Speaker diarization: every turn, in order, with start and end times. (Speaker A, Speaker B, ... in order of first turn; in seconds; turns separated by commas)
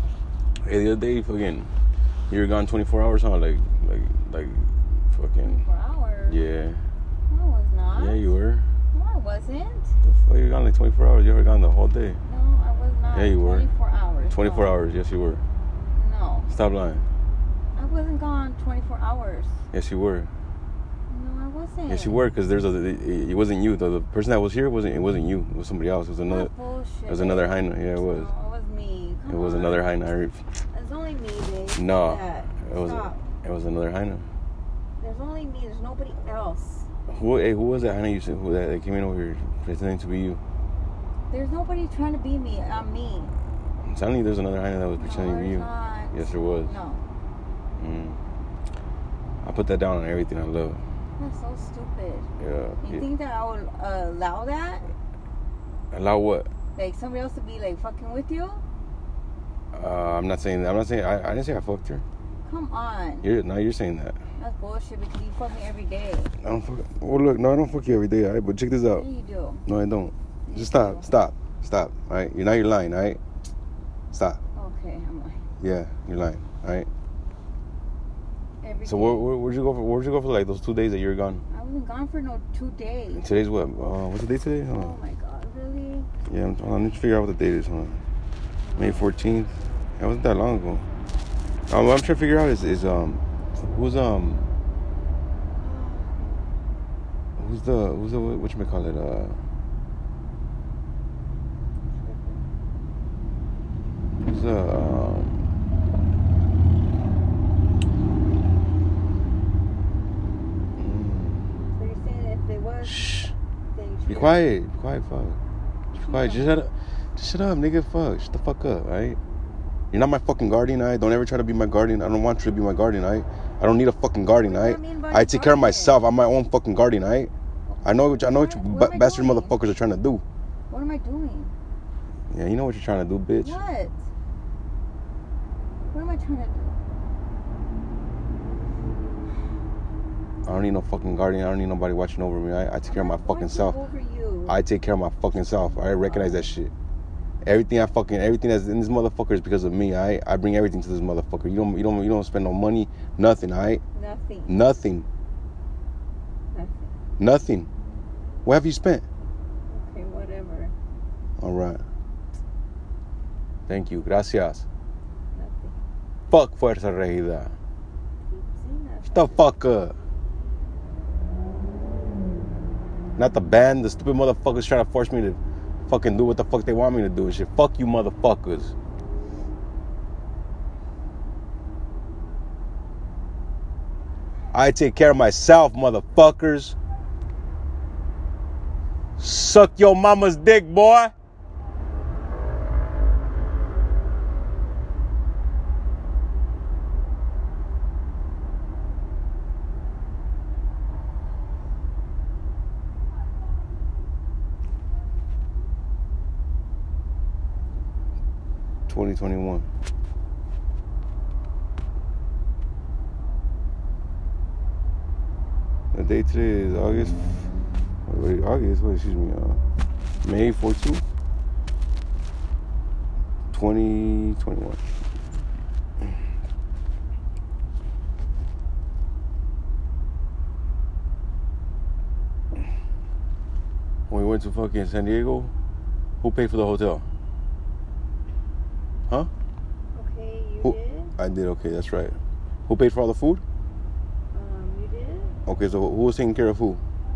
Speaker A: 0.6-1.7, Speaker A: 2.3-5.6, Speaker B: 5.4-6.4, Speaker A: 6.3-6.8, Speaker B: 7.3-8.3, Speaker A: 7.9-8.7, Speaker B: 8.9-10.0, Speaker A: 10.0-12.2, Speaker B: 12.2-14.8, Speaker A: 13.1-13.7, Speaker A: 14.3-15.4, Speaker B: 15.9-16.5, Speaker A: 16.5-17.0, Speaker B: 17.8-19.6, Speaker A: 19.7-20.3, Speaker B: 21.1-22.1, Speaker A: 21.9-26.5, Speaker B: 26.2-29.9, Speaker A: 27.1-28.3, Speaker A: 29.3-30.4, Speaker B: 30.7-33.2, Speaker A: 31.7-34.3, Speaker B: 35.0-36.9, Speaker A: 37.1-40.4, Speaker B: 41.3-43.3, Speaker A: 43.8-46.7, Speaker B: 45.0-47.0, Speaker A: 47.8-48.2, Speaker A: 49.4-50.8, Speaker B: 51.2-52.3, Speaker A: 52.4-53.0, Speaker B: 52.8-54.9, Speaker A: 55.9-56.5, Speaker B: 56.8-58.6, Speaker A: 59.7-62.0, Speaker B: 62.4-63.3, Speaker A: 63.2-64.2, Speaker B: 64.4-66.3, Speaker A: 66.4-69.0, Speaker B: 68.9-69.6, Speaker A: 69.7-73.2, Speaker B: 70.5-71.1, Speaker A: 74.1-74.4, Speaker B: 74.5-75.5, Speaker A: 75.6-76.9, Speaker B: 78.6-79.2, Speaker A: 78.8-81.4, Speaker B: 81.5-83.4, Speaker A: 83.1-85.0, Speaker B: 84.7-86.1, Speaker A: 86.2-88.0, Speaker B: 88.6-89.1, Speaker A: 88.8-90.8, Speaker A: 91.7-94.5, Speaker B: 95.6-96.3, Speaker A: 97.4-99.4, Speaker B: 101.9-102.4, Speaker A: 104.2-105.4, Speaker A: 110.8-111.4, Speaker B: 111.7-113.2, Speaker A: 112.8-113.3, Speaker B: 113.7-114.4, Speaker A: 114.1-115.4, Speaker B: 115.9-116.5, Speaker A: 115.9-119.2, Speaker A: 119.9-127.3, Speaker B: 124.3-126.0, Speaker B: 127.7-129.6, Speaker A: 127.8-130.2, Speaker B: 130.7-131.5, Speaker A: 132.3-133.6, Speaker B: 133.4-134.0, Speaker B: 135.9-136.8, Speaker A: 140.4-143.8, Speaker B: 142.8-144.5, Speaker A: 144.5-146.7, Speaker A: 147.4-153.8, Speaker B: 153.9-154.5, Speaker A: 154.5-155.1, Speaker B: 156.5-156.9, Speaker A: 157.2-157.7, Speaker A: 158.4-159.0, Speaker B: 159.7-160.7, Speaker A: 161.4-161.8, Speaker A: 163.7-164.6, Speaker B: 165.3-165.8, Speaker A: 166.3-167.5, Speaker B: 168.3-169.4, Speaker A: 169.1-169.9, Speaker A: 173.2-178.7, Speaker A: 184.5-186.8, Speaker A: 189.2-191.1, Speaker A: 208.9-209.7, Speaker A: 215.9-217.2, Speaker A: 218.1-219.6, Speaker A: 220.2-221.0, Speaker A: 223.5-224.8, Speaker A: 234.1-235.5, Speaker A: 236.2-237.1, Speaker B: 239.9-241.1, Speaker A: 240.6-243.4, Speaker B: 244.3-245.4, Speaker A: 245.5-246.8